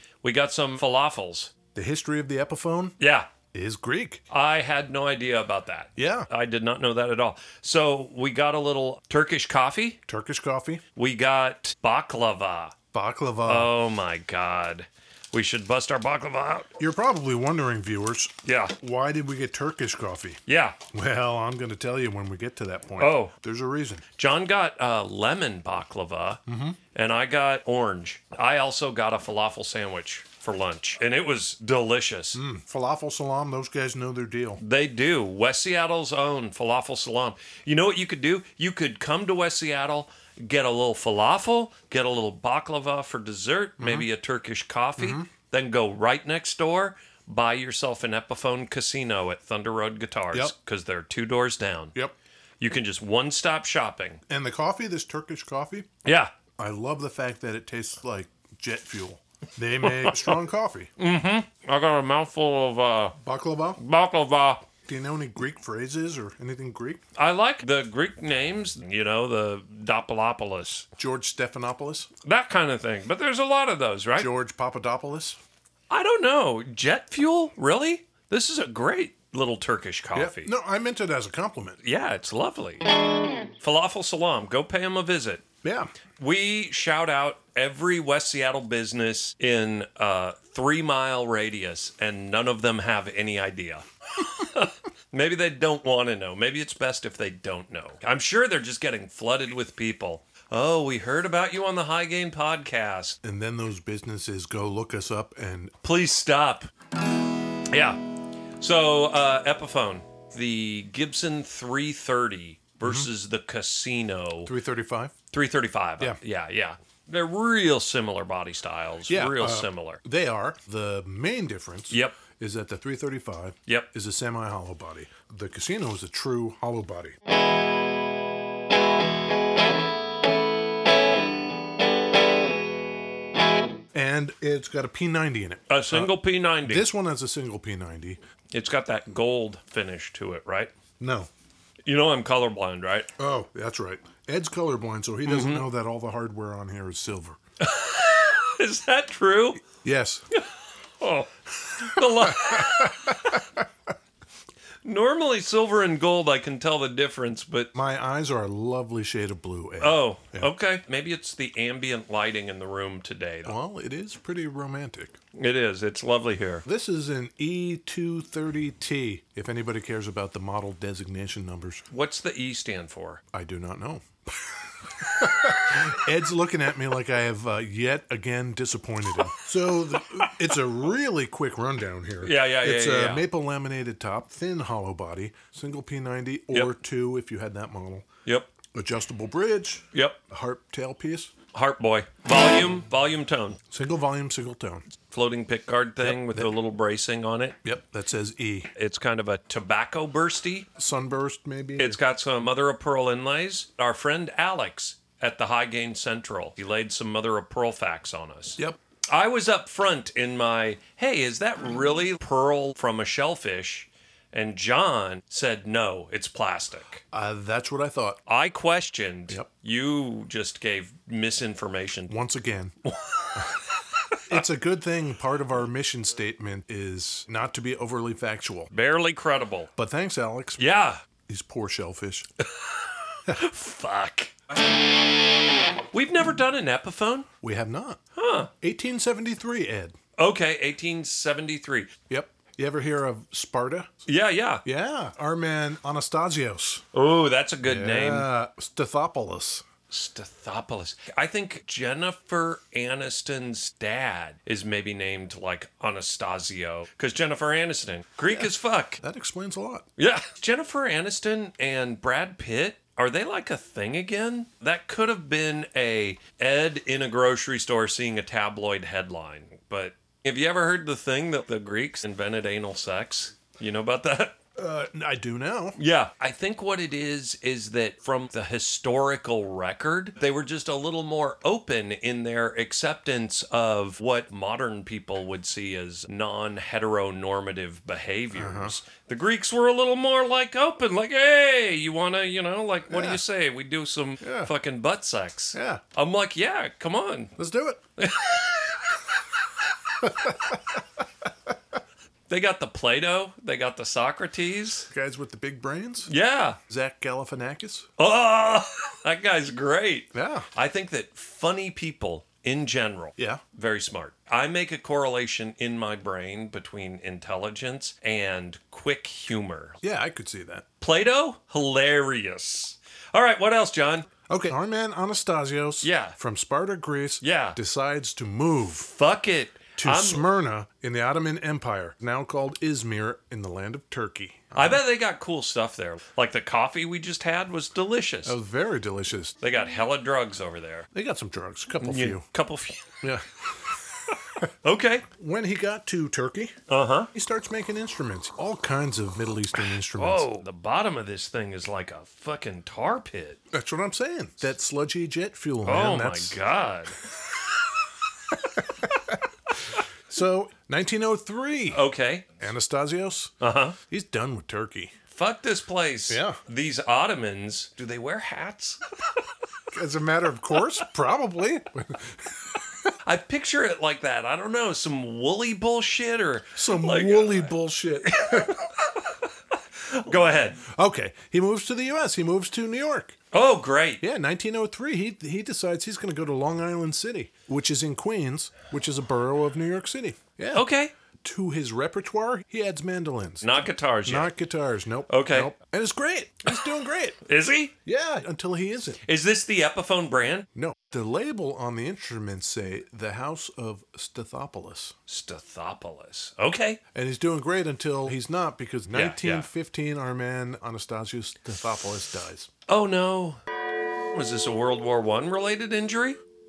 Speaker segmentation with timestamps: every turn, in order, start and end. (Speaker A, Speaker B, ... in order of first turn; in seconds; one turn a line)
Speaker A: 0.2-1.5
Speaker B: 1.7-3.0
Speaker A: 3.0-3.3
Speaker B: 3.5-4.2
Speaker A: 4.3-10.0
Speaker B: 6.0-6.3
Speaker B: 10.1-10.8
Speaker A: 11.0-12.8
Speaker B: 12.9-13.7
Speaker A: 13.5-16.7
Speaker B: 16.8-24.1
Speaker A: 18.4-18.8
Speaker A: 20.5-20.8
Speaker A: 23.0-23.3
Speaker A: 24.2-26.4
Speaker B: 26.5-26.8
Speaker A: 26.9-32.4
Speaker B: 32.3-34.6
Speaker A: 34.6-52.0
Speaker B: 43.8-44.1
Speaker B: 45.0-45.3
Speaker A: 52.6-54.2
Speaker B: 54.3-55.9
Speaker A: 56.0-56.3
Speaker B: 56.6-60.9
Speaker A: 59.8-60.4
Speaker A: 61.0-63.2
Speaker B: 63.2-63.8
Speaker A: 63.8-64.7
Speaker B: 64.8-67.0
Speaker A: 67.2-70.9
Speaker B: 71.0-72.1
Speaker A: 72.2-74.3
Speaker B: 74.2-75.4
Speaker A: 75.9-80.5
Speaker B: 80.1-81.8
Speaker A: 81.8-82.9
Speaker A: 83.6-85.5
Speaker B: 85.6-85.9
Speaker A: 86.2-103.2
Speaker B: 103.2-105.8
Speaker A: 105.8-106.7
Speaker A: 107.7-108.0
Speaker A: 108.6-114.5
Speaker B: 112.8-113.1
Speaker B: 114.5-115.2
Speaker A: 115.3-120.0
Speaker B: 119.1-127.2
Speaker A: 121.9-122.2
Speaker B: 133.9-138.2
Speaker A: 135.7-136.9
Speaker A: 138.5-140.7
Speaker B: 141.0-141.3
Speaker A: 141.9-143.1
Speaker B: 143.2-147.4
Speaker A: 145.3-145.7
Speaker A: 147.6-149.6
Speaker B: 149.8-150.3
Speaker A: 150.3-153.4
Speaker B: 151.8-153.6
Speaker A: 154.8-157.7
Speaker B: 157.7-160.5
Speaker A: 159.8-163.6
Speaker B: 163.4-165.2
Speaker A: 165.3-166.7
Speaker B: 166.7-171.9
Speaker A: 171.9-173.2
Speaker B: 173.3-188.1
Speaker A: 182.2-183.3
Speaker A: 188.3-188.5
Speaker B: 188.7-191.3
Speaker A: 189.9-190.2
Speaker A: 191.5-193.6
Speaker B: 193.7-194.9
Speaker A: 195.1-197.6
Speaker B: 196.0-196.5
Speaker B: 197.6-198.7
Speaker A: 198.8-200.7
Speaker B: 200.8-202.0
Speaker A: 201.8-217.0
Speaker B: 217.1-218.2
Speaker A: 218.3-222.1
Speaker B: 222.1-222.8
Speaker A: 222.8-224.4
Speaker B: 223.3-223.6
Speaker B: 224.3-228.7
Speaker A: 228.7-229.7
Speaker B: 229.8-230.6
Speaker A: 230.6-231.0
Speaker B: 231.3-232.3
Speaker A: 232.4-234.6
Speaker A: 235.9-237.3
Speaker B: 237.4-238.0
Speaker A: 238.2-238.5
Speaker B: 238.6-240.0
Speaker A: 240.2-241.9
Speaker B: 242.1-244.0
Speaker A: 244.1-244.6
Speaker B: 244.6-246.9
Speaker A: 246.9-248.3
Speaker B: 247.6-249.7
Speaker A: 249.9-259.0
Speaker B: 258.3-259.9
Speaker A: 260.0-274.4
Speaker B: 274.6-275.8
Speaker A: 275.8-297.4
Speaker B: 288.3-288.8
Speaker B: 292.9-293.2
Speaker B: 294.2-294.5
Speaker B: 295.5-295.8
Speaker B: 297.4-297.8
Speaker A: 298.0-299.1
Speaker B: 300.0-300.6
Speaker A: 302.3-304.9
Speaker B: 304.9-306.1
Speaker A: 306.1-306.6
Speaker B: 306.7-307.9
Speaker A: 308.0-319.8
Speaker B: 310.1-310.5
Speaker B: 313.2-313.4
Speaker B: 319.8-320.7
Speaker A: 320.8-324.1
Speaker B: 324.3-328.9
Speaker A: 325.8-326.2
Speaker A: 327.2-327.6
Speaker A: 328.8-330.3
Speaker B: 329.8-334.8
Speaker A: 334.5-338.4
Speaker B: 338.2-339.4
Speaker A: 339.4-340.9
Speaker B: 340.9-342.3
Speaker A: 341.8-343.0
Speaker B: 343.0-343.7
Speaker A: 344.1-345.1
Speaker B: 345.1-346.6
Speaker A: 346.7-347.1
Speaker B: 347.1-350.3
Speaker A: 349.7-353.4
Speaker B: 353.5-356.4
Speaker A: 355.6-357.0
Speaker B: 358.4-361.9
Speaker A: 361.7-362.4
Speaker B: 362.4-363.4
Speaker A: 363.4-363.8
Speaker B: 363.9-365.0
Speaker A: 365.1-369.2
Speaker B: 366.1-366.4
Speaker B: 369.7-372.9
Speaker A: 373.1-377.5
Speaker B: 376.6-378.6
Speaker A: 378.1-379.3
Speaker A: 379.9-380.6
Speaker B: 380.6-383.2
Speaker A: 383.3-384.0
Speaker B: 384.0-390.7
Speaker A: 390.5-390.9
Speaker B: 391.2-397.2
Speaker A: 393.4-394.3
Speaker A: 395.1-395.5
Speaker A: 397.2-397.7
Speaker B: 397.9-399.0
Speaker A: 399.0-400.5
Speaker B: 400.6-405.0
Speaker A: 405.1-406.8
Speaker B: 406.9-412.5
Speaker A: 408.9-409.5
Speaker A: 412.7-413.4
Speaker A: 414.1-416.2